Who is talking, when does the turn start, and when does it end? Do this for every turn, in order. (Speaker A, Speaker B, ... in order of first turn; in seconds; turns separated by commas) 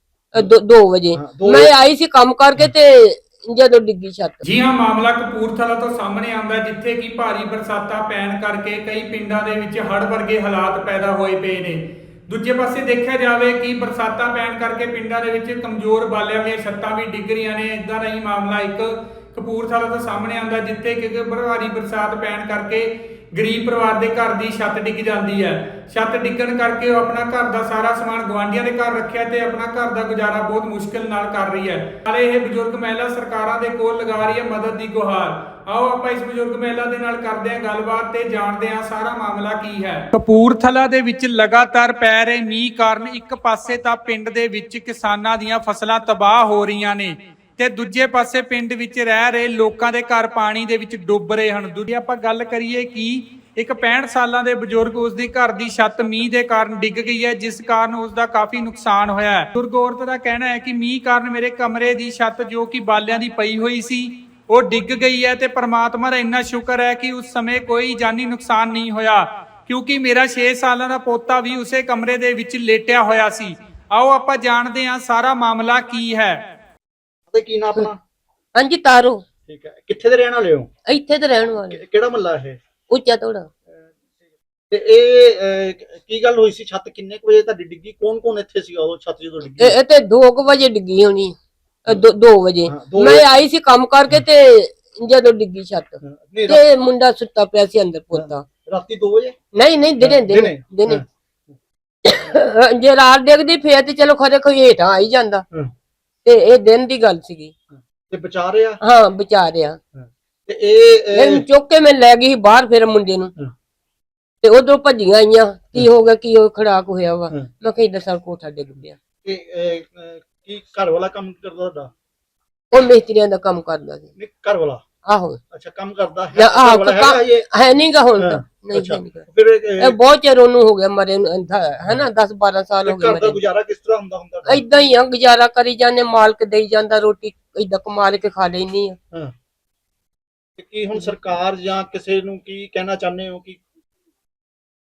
Speaker A: 0.3-4.4, Speaker B: 1.1-1.7, Speaker C: 4.4-76.4, Speaker B: 77.3-78.0, Speaker A: 78.6-79.2, Speaker B: 79.5-80.7, Speaker A: 80.9-81.8, Speaker B: 81.7-82.6, Speaker A: 82.9-83.5, Speaker B: 84.7-89.8, Speaker A: 89.6-98.5, Speaker B: 92.7-93.3, Speaker B: 96.0-96.6, Speaker B: 98.1-99.4, Speaker A: 99.5-101.0, Speaker B: 100.0-101.0, Speaker A: 102.0-105.5, Speaker A: 106.2-107.5, Speaker B: 108.1-108.8, Speaker A: 108.8-109.8, Speaker B: 110.0-111.4, Speaker A: 111.1-113.3, Speaker A: 114.4-119.0, Speaker B: 119.2-121.9, Speaker A: 122.7-124.1, Speaker B: 124.2-124.8, Speaker A: 125.0-125.4, Speaker B: 125.5-127.5, Speaker A: 126.4-129.3, Speaker B: 128.2-130.0, Speaker A: 129.8-133.4, Speaker B: 132.8-134.6, Speaker A: 134.5-139.0, Speaker B: 140.6-143.6